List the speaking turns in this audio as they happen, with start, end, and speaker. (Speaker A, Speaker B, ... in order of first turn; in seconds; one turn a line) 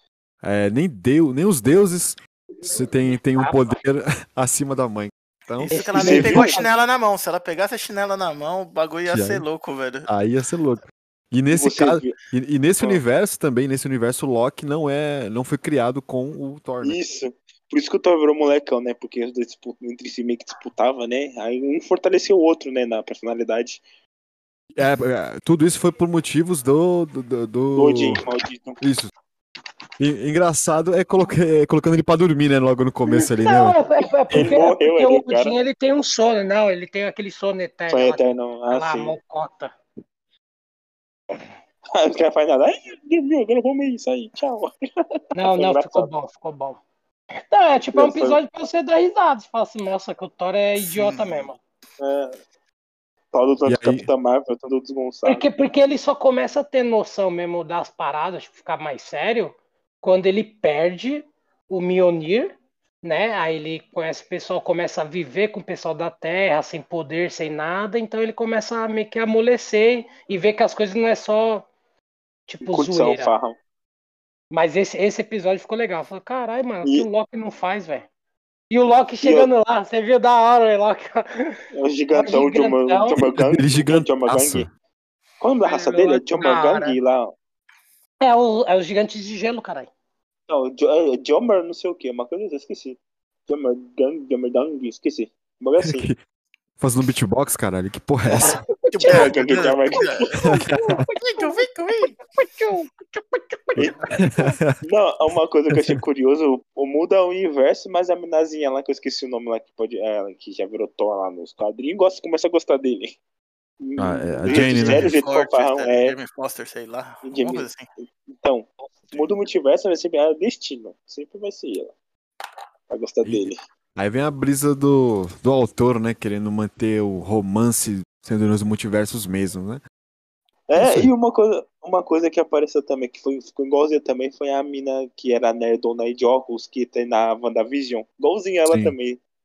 Speaker A: 0.4-6.2
Speaker B: 3.4-3.7
Speaker C: 5.6-10.1
Speaker B: 5.7-6.7
Speaker D: 6.0-6.6
Speaker A: 9.1-9.4
Speaker A: 10.1-17.0
Speaker D: 11.5-12.2
Speaker D: 16.8-23.8
Speaker A: 24.7-28.2
Speaker D: 27.7-28.8
Speaker A: 28.8-29.1
Speaker A: 30.0-33.8
Speaker B: 33.1-39.7
Speaker D: 34.3-35.5
Speaker D: 37.9-39.1
Speaker D: 41.9-44.7
Speaker B: 45.3-46.8
Speaker D: 45.4-46.1
Speaker B: 47.5-51.6
Speaker D: 47.9-48.4
Speaker C: 50.8-51.5
Speaker D: 52.0-52.4
Speaker D: 53.3-55.4
Speaker A: 53.7-54.1
Speaker B: 55.2-62.5
Speaker B: 63.0-71.7
Speaker B: 72.5-73.3
Speaker D: 72.6-73.5
Speaker B: 74.5-78.1
Speaker B: 78.7-81.6
Speaker D: 79.2-79.5
Speaker D: 81.7-84.7
Speaker B: 82.1-83.2
Speaker A: 83.2-84.7
Speaker D: 85.4-87.3
Speaker B: 85.6-87.0
Speaker B: 88.2-89.9
Speaker D: 90.5-96.0
Speaker A: 95.8-96.2
Speaker A: 96.8-98.6
Speaker B: 98.3-99.3
Speaker C: 98.9-100.4
Speaker D: 99.0-100.4
Speaker B: 100.3-101.7
Speaker A: 100.4-101.0
Speaker C: 101.3-102.2
Speaker B: 102.3-104.6
Speaker D: 103.8-104.1
Speaker A: 104.1-104.8
Speaker D: 104.8-113.2
Speaker A: 105.7-106.0
Speaker D: 113.8-116.2
Speaker A: 114.0-115.2
Speaker C: 114.5-117.9
Speaker D: 117.2-117.7
Speaker D: 118.3-121.9
Speaker D: 122.9-123.6
Speaker A: 123.2-129.8
Speaker D: 130.7-139.2
Speaker A: 130.8-131.1
Speaker A: 138.7-138.9